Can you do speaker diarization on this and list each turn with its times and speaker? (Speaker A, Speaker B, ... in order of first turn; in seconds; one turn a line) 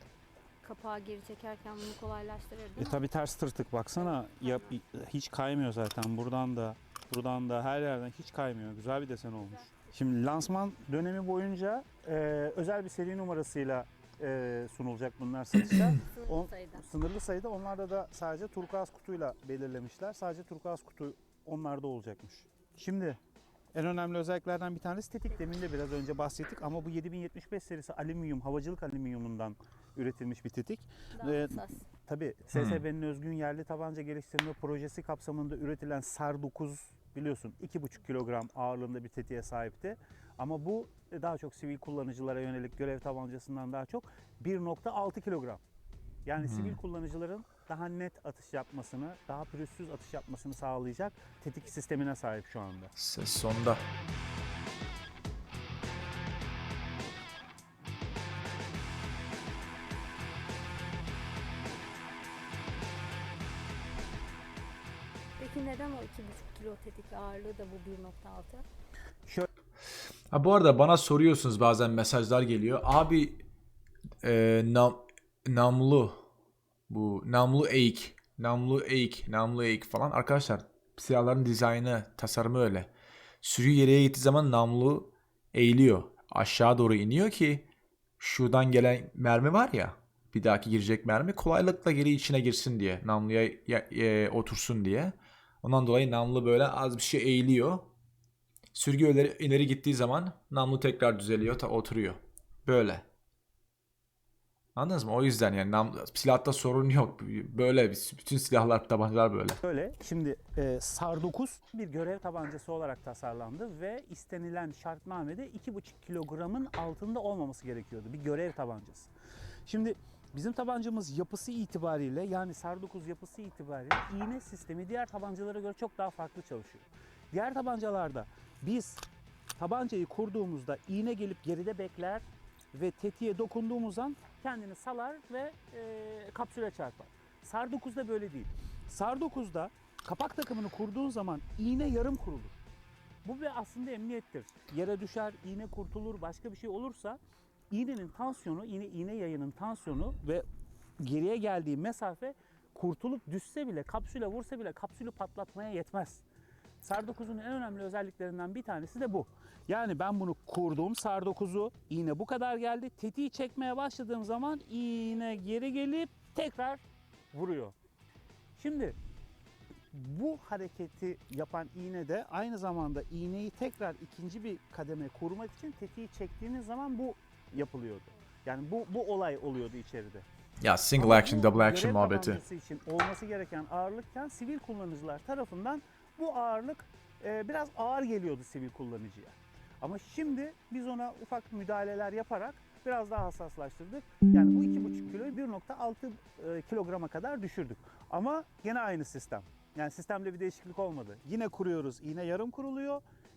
Speaker A: 0.6-3.0
Speaker B: 2.8-23.2
Speaker A: 4.0-4.6
Speaker A: 16.1-16.8
Speaker B: 23.7-45.6
Speaker A: 31.1-31.8
Speaker C: 32.5-32.8
Speaker B: 46.2-52.9
Speaker C: 46.4-46.8
Speaker C: 53.0-53.8
Speaker A: 65.4-68.6
Speaker C: 70.3-73.4
Speaker C: 74.2-76.2
Speaker C: 76.9-82.9
Speaker C: 83.4-87.7
Speaker C: 88.2-97.9
Speaker C: 98.7-103.0
Speaker C: 104.8-109.6
Speaker B: 109.6-119.1
Speaker B: 119.7-129.0
Speaker B: 129.6-142.6
Speaker B: 143.2-147.2
Speaker B: 147.7-150.4
Speaker B: 151.0-156.2
Speaker B: 156.8-167.7
Speaker B: 168.6-169.0
Speaker B: 169.9-180.2
Speaker C: 180.6-182.4
Speaker B: 181.0-203.0